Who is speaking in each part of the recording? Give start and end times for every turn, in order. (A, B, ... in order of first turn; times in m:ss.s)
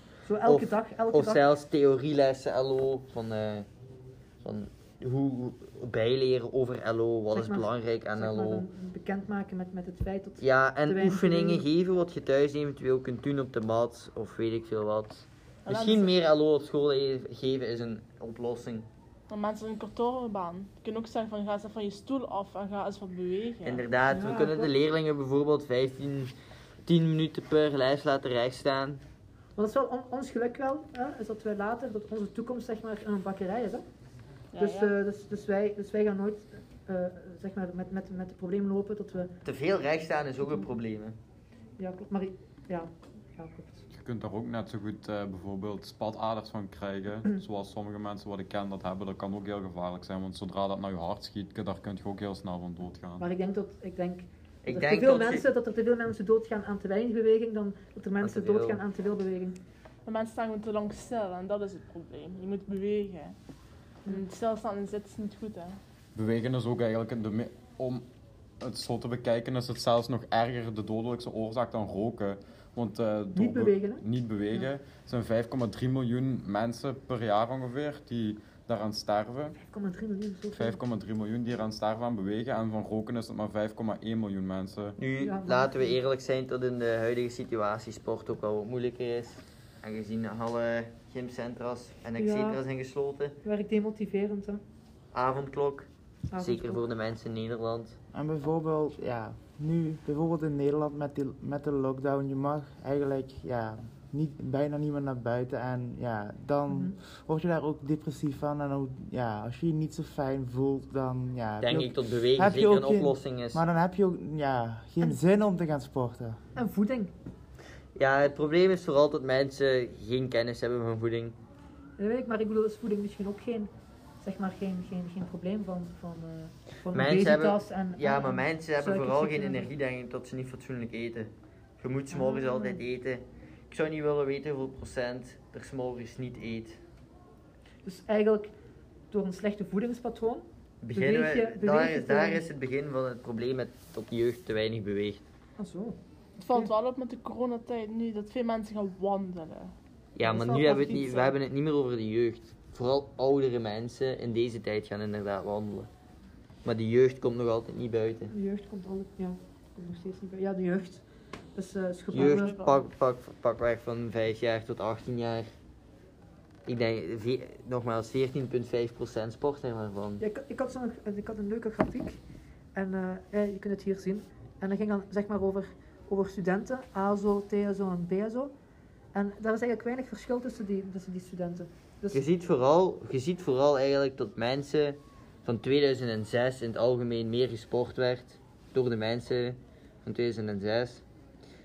0:00.3-0:01.4 A
0:00.4-0:03.7 B
0:04.4-0:08.6 B
0:07.3-0:11.6 A
0:10.4-0:18.9 B
0:15.7-0:16.1 C
0:19.3-0:23.8 C
0:23.6-0:26.3 B
0:24.1-0:24.7 A
0:26.9-0:29.0 B
0:29.6-0:33.8 A
0:34.5-0:35.0 C
0:34.6-0:39.3 A
0:39.4-0:41.2 B
0:40.4-0:40.7 A
0:41.8-0:43.8 A
0:43.9-0:53.2 D
0:53.2-0:59.6 A
0:54.6-0:55.4 B
0:58.2-0:58.8 B
1:00.1-1:03.4 C
1:04.1-1:05.8 C
1:06.2-1:08.1 D
1:08.6-1:19.6 D
1:13.4-1:14.7 A
1:19.6-1:20.8 A
1:20.5-1:25.0 D
1:25.0-1:33.4 B
1:25.2-1:26.0 A
1:32.2-1:32.6 A
1:33.4-1:34.6 A
1:35.1-1:38.0 B
1:36.3-1:36.8 A
1:38.1-1:56.4 E
1:51.6-1:53.6 B
1:56.6-1:57.1 A
1:58.0-2:01.4 B
2:02.0-2:09.7 A
2:06.9-2:16.8 B
2:12.1-2:12.8 A
2:17.8-2:18.5 A
2:19.1-2:22.5 A
2:20.8-2:25.2 B
2:25.6-2:26.0 A
2:26.4-2:29.7 C
2:30.2-2:35.9 B
2:30.2-2:31.3 A
2:36.6-2:38.3 B
2:38.3-2:41.0 A
2:41.6-2:42.5 A
2:42.1-2:45.5 B
2:42.2-2:42.8 C
2:46.7-2:50.2 B
2:50.2-2:52.2 A
2:52.8-2:58.5 A
2:59.1-3:02.2 A
3:02.1-3:11.0 B